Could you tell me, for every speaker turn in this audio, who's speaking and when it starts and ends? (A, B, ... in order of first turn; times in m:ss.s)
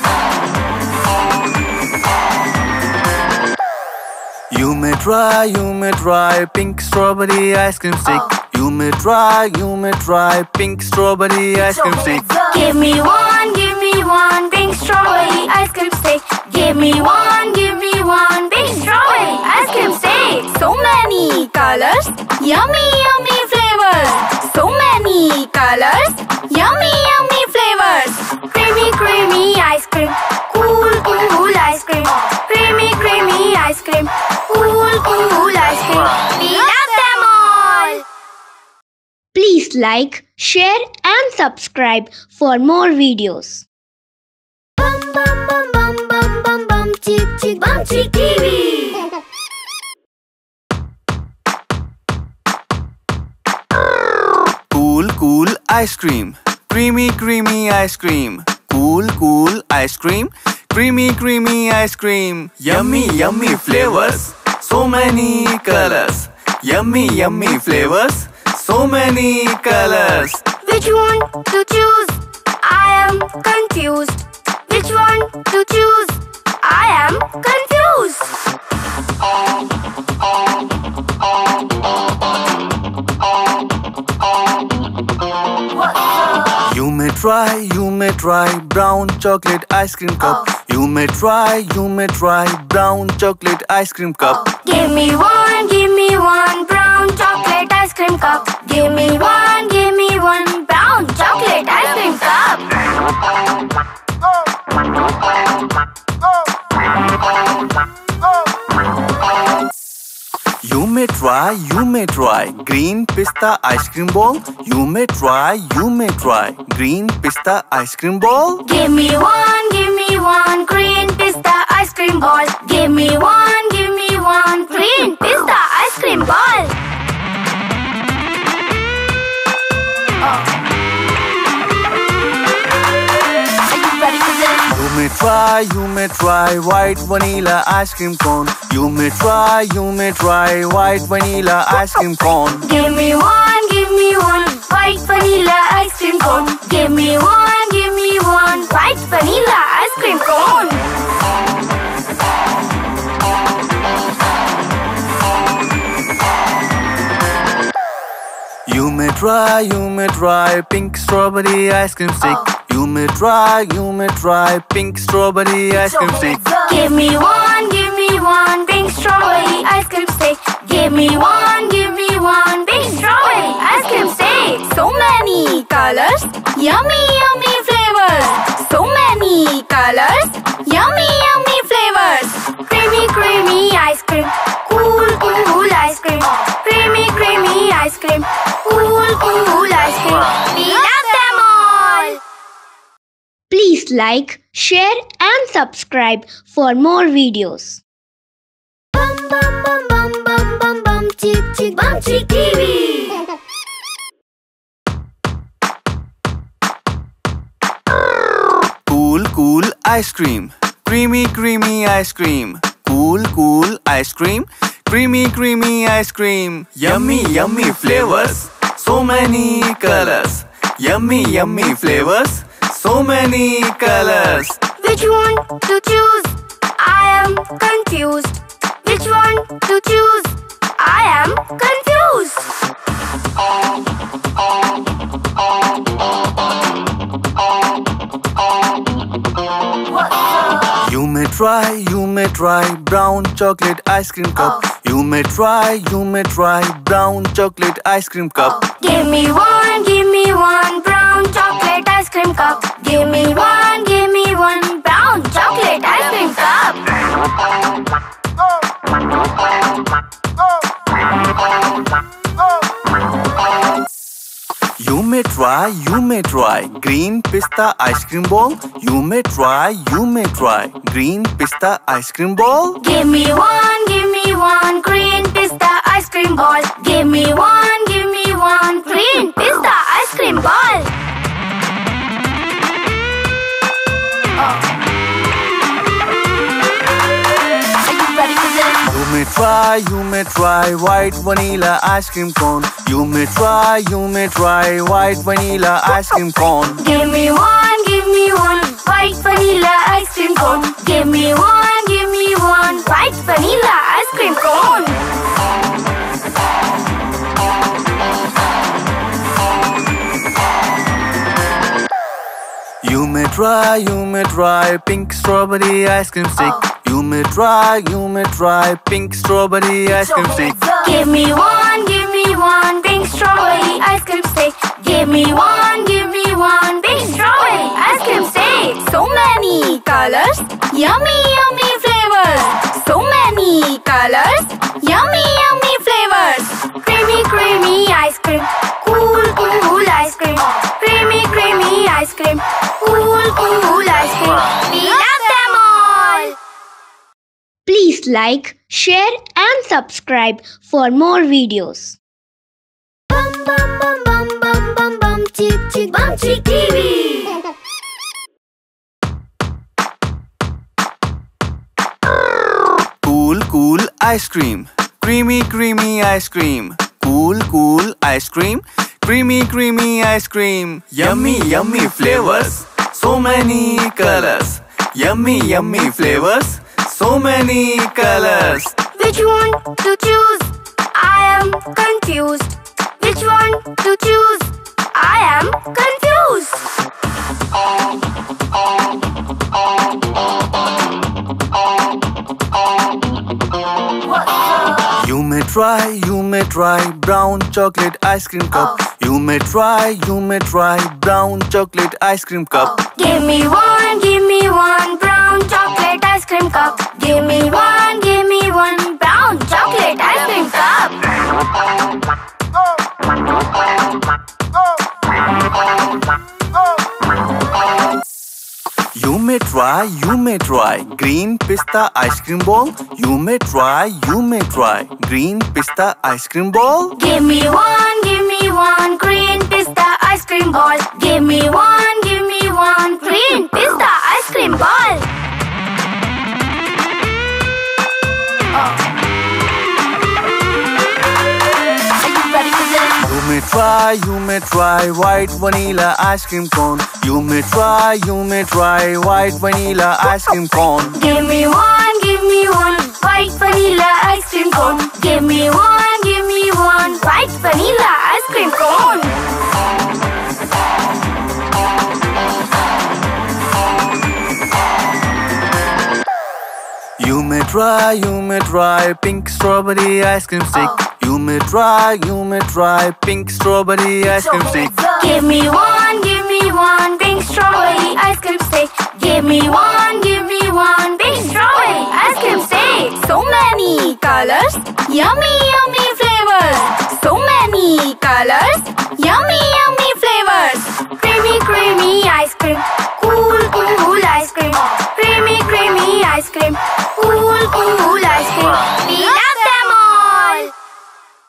0:04.5-0:12.3 A
0:12.2-0:38.0 B
0:39.3-0:43.7 C
0:45.3-0:49.1 B
0:54.7-1:10.5 A
1:10.6-1:18.4 B
1:26.6-1:34.5 A
1:34.4-1:42.8 B
1:50.6-1:58.6 A
1:58.6-2:06.8 B
2:14.7-2:22.6 A
2:22.6-2:30.9 B
2:38.7-2:46.5 A
2:46.4-3:12.2 B
3:13.5-3:17.8 C
3:19.4-3:23.2 B
3:28.9-3:44.7 A
3:44.8-3:52.7 B
4:00.7-4:08.7 A
4:08.7-4:17.0 B
4:24.8-4:32.8 A
4:32.8-4:41.0 B
4:48.8-4:56.8 A
4:56.8-5:05.0 B
5:12.8-5:20.6 A
5:20.6-5:46.4 B
5:47.7-5:52.0 C
5:53.5-5:57.4 B
6:03.0-6:18.8 A
6:18.9-6:26.8 B
6:34.9-6:42.8 A
6:42.8-6:51.1 B
6:58.9-7:07.0 A
7:07.0-7:15.1 B
7:23.0-7:31.0 A
7:31.0-7:39.2 B
7:47.0-7:54.8 A
7:54.7-8:20.5 B